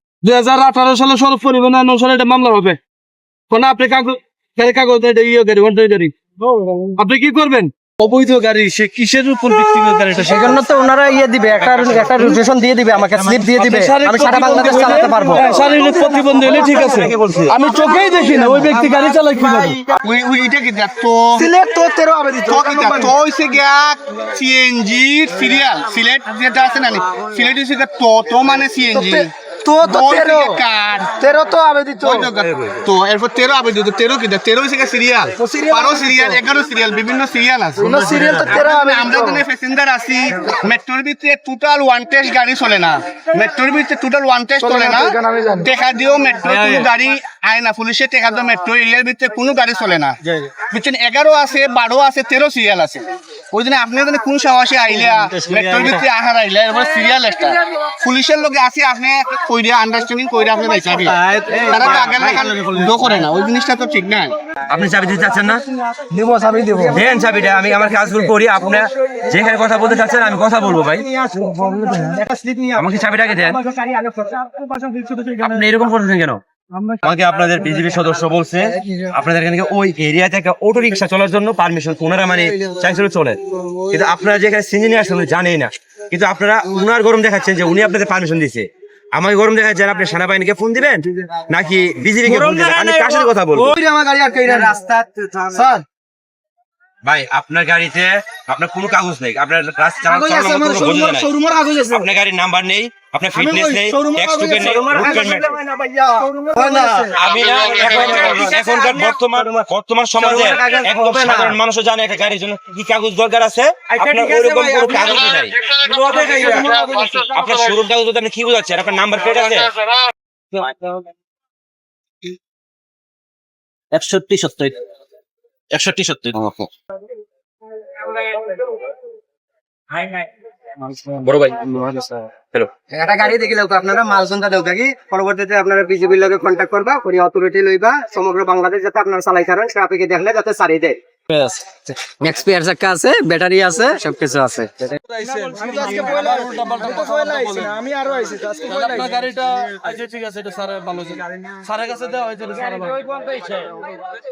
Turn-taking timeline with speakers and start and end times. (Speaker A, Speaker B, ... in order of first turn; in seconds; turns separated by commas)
Speaker A: 0.2-2.8, Speaker A: 3.5-6.1, Speaker A: 7.0-10.6, Speaker B: 10.1-15.8, Speaker C: 11.6-12.1, Speaker C: 13.1-13.5, Speaker A: 13.5-19.8, Speaker D: 15.3-16.1, Speaker C: 16.9-17.5, Speaker D: 17.7-19.9, Speaker E: 20.0-21.5, Speaker D: 21.4-23.1, Speaker E: 22.4-29.3, Speaker D: 28.9-30.6, Speaker E: 29.8-31.1, Speaker D: 31.2-32.2, Speaker E: 32.0-64.4, Speaker C: 32.4-32.7, Speaker D: 35.4-36.4, Speaker D: 37.8-39.4, Speaker D: 44.6-45.7, Speaker A: 46.4-46.9, Speaker B: 61.0-63.1, Speaker C: 64.7-65.6, Speaker D: 66.1-67.0, Speaker B: 66.8-68.2, Speaker C: 66.9-71.1, Speaker B: 71.1-72.9, Speaker D: 71.4-72.1, Speaker C: 72.8-73.6, Speaker C: 75.4-76.4, Speaker C: 77.0-93.7, Speaker B: 92.5-93.3, Speaker D: 93.7-94.7, Speaker B: 94.4-95.7, Speaker C: 97.0-101.3, Speaker D: 100.0-102.0, Speaker C: 101.9-105.5, Speaker D: 103.5-105.4, Speaker B: 104.1-111.6, Speaker D: 106.2-107.2, Speaker C: 107.1-115.7, Speaker B: 113.9-117.3, Speaker C: 116.2-119.7, Speaker B: 124.0-124.7, Speaker B: 130.9-132.2, Speaker C: 131.2-131.7, Speaker B: 132.9-144.9, Speaker A: 145.0-147.7, Speaker D: 145.2-149.1, Speaker A: 148.7-153.7